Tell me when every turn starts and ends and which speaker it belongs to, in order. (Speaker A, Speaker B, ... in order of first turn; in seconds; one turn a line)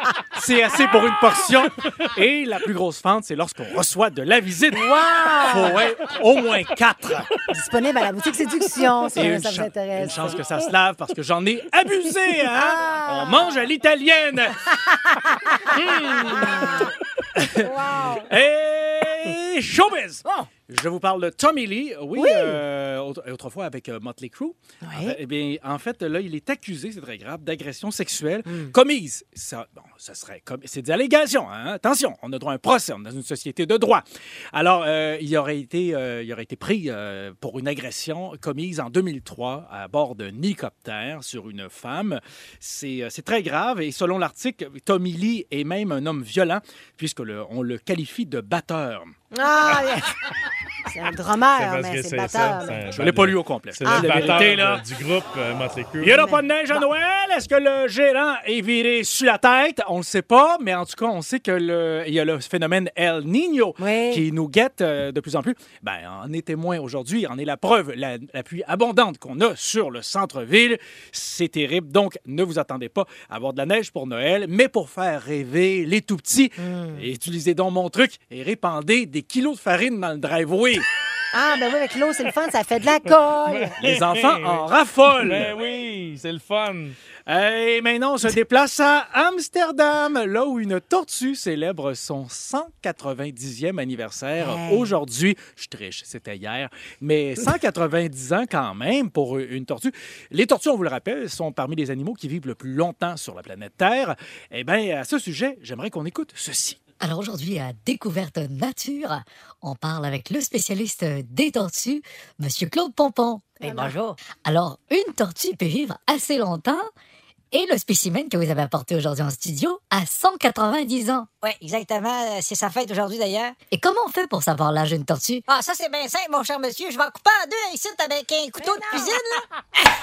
Speaker A: 0.3-7.3
Speaker B: 4.7-5.8
Speaker B: 7.5-10.3
Speaker A: 9.1-14.6
Speaker B: 12.5-13.6
Speaker B: 15.1-16.9
Speaker A: 15.8-16.7
Speaker A: 17.4-17.7
Speaker B: 17.6-18.3
Speaker A: 18.2-49.1
Speaker B: 22.2-22.6
Speaker B: 24.8-25.2
Speaker B: 28.5-28.7
Speaker B: 49.3-50.1
Speaker B: 50.9-53.0
Speaker C: 51.5-56.2
Speaker A: 52.9-54.8
Speaker B: 53.9-54.5
Speaker A: 56.0-80.9
Speaker B: 56.1-56.9
Speaker B: 63.8-64.2
Speaker B: 76.6-77.0
Speaker B: 81.3-83.8
Speaker C: 83.5-84.7
Speaker A: 83.8-85.6
Speaker C: 85.2-87.0
Speaker A: 87.3-106.8
Speaker B: 94.4-94.9
Speaker D: 107.0-116.9
Speaker B: 113.6-113.9
Speaker E: 113.7-114.2
Speaker D: 117.5-121.3
Speaker E: 121.4-123.6
Speaker D: 123.7-125.5
Speaker E: 125.5-129.4
Speaker B: 128.6-129.4